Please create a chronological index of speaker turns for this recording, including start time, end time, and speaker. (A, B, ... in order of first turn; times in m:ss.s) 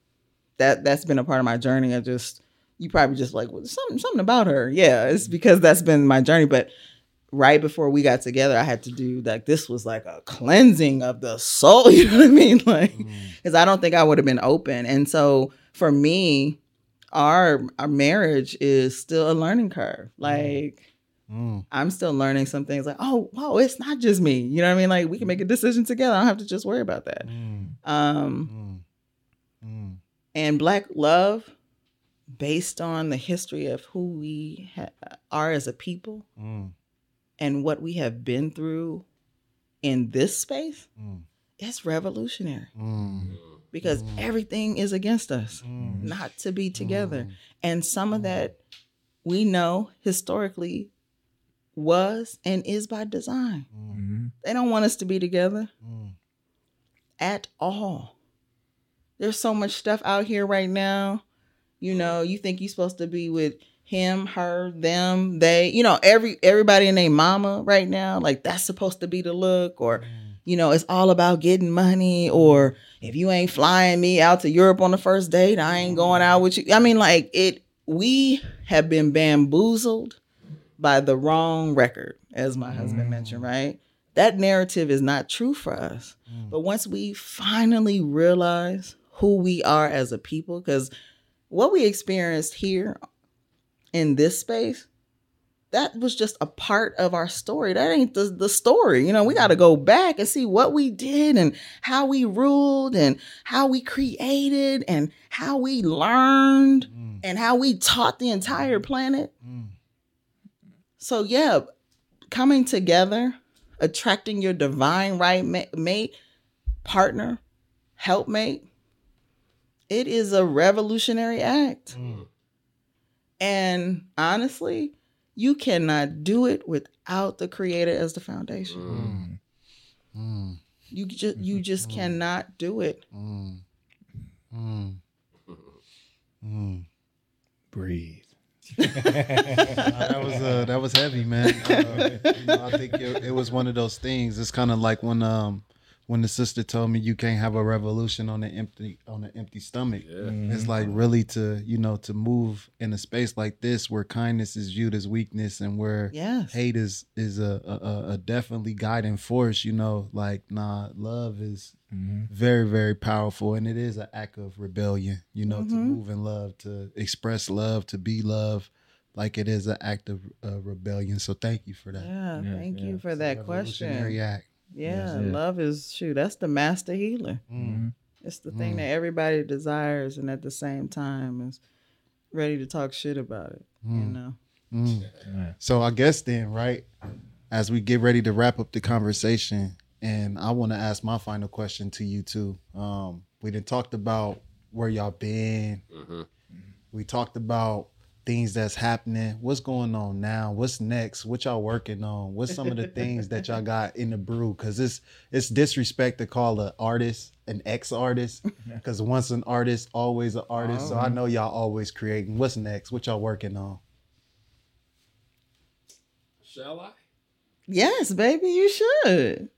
0:00.6-0:06.7 A
0:07.3-0:16.6 A
0:13.0-0:13.3 B
0:17.1-0:20.8 A
0:20.2-0:20.6 B
0:21.3-0:21.6 B
0:21.7-0:27.3 A
0:27.2-0:27.7 B
0:27.8-0:28.5 A
0:28.5-0:28.8 B
0:29.6-0:30.0 B
0:30.3-0:31.5 A
0:32.4-0:36.3 A
0:36.4-0:36.7 B
0:37.4-0:39.0 A
0:39.8-0:40.9 A
0:41.0-0:41.2 B
0:41.6-0:42.7 A
0:42.8-0:44.2 B
0:43.7-0:48.6 A
0:45.6-0:46.2 B
0:45.8-0:46.1 C
0:46.8-0:47.3 B
0:49.2-0:50.9 A
0:51.8-0:53.7 A
0:53.7-0:54.0 B
0:53.9-0:54.3 C
0:54.4-0:55.7 A
0:55.8-0:56.2 B
0:57.2-0:58.2 A
0:59.2-1:01.2 A
1:01.8-1:20.2 A
1:10.0-1:10.3 B
1:20.8-1:30.9 A
1:22.7-1:23.4 B
1:22.7-1:23.0 C
1:31.5-1:33.0 A
1:33.9-1:34.9 A
1:35.7-1:49.3 A
1:46.9-1:47.2 B
1:49.4-1:49.7 B
1:51.0-1:51.7 A
1:52.3-1:56.2 A
1:56.8-1:57.4 A
1:58.0-1:58.7 A
1:59.9-2:02.0 A
2:02.0-2:02.2 B
2:02.0-2:02.3 D
2:03.4-2:08.8 A
2:08.7-2:09.1 D
2:08.9-2:09.2 B
2:08.9-2:09.4 C
2:10.2-2:10.6 B
2:10.9-2:13.0 A
2:11.8-2:12.1 B
2:13.1-2:13.6 B
2:14.5-2:15.0 B
2:15.5-2:15.8 D
2:16.4-2:16.8 B
2:17.7-2:20.6 C
2:18.8-2:19.9 A
2:19.8-2:41.8 B
2:21.6-2:22.3 C
2:21.7-2:22.4 A
2:30.0-2:30.4 D
2:30.2-2:31.0 C
2:36.1-2:36.6 A
2:41.9-2:42.3 C
2:42.3-2:52.1 B
2:45.5-2:46.0 A
2:51.9-2:54.2 A
2:52.4-2:53.0 C
2:53.1-2:54.5 B
2:54.7-2:57.4 A
2:54.8-2:55.4 C
2:57.5-2:57.8 B
2:57.6-2:57.9 C
2:58.2-3:01.6 A
2:58.5-2:58.9 B
3:02.3-3:04.4 A
3:03.8-3:04.2 B
3:04.7-3:06.9 B
3:05.3-3:05.6 C
3:07.5-3:15.8 B
3:15.9-3:16.3 D
3:16.9-3:33.8 B
3:30.6-3:30.9 A
3:30.8-3:31.2 C
3:36.4-3:37.0 D
3:37.7-3:39.5 A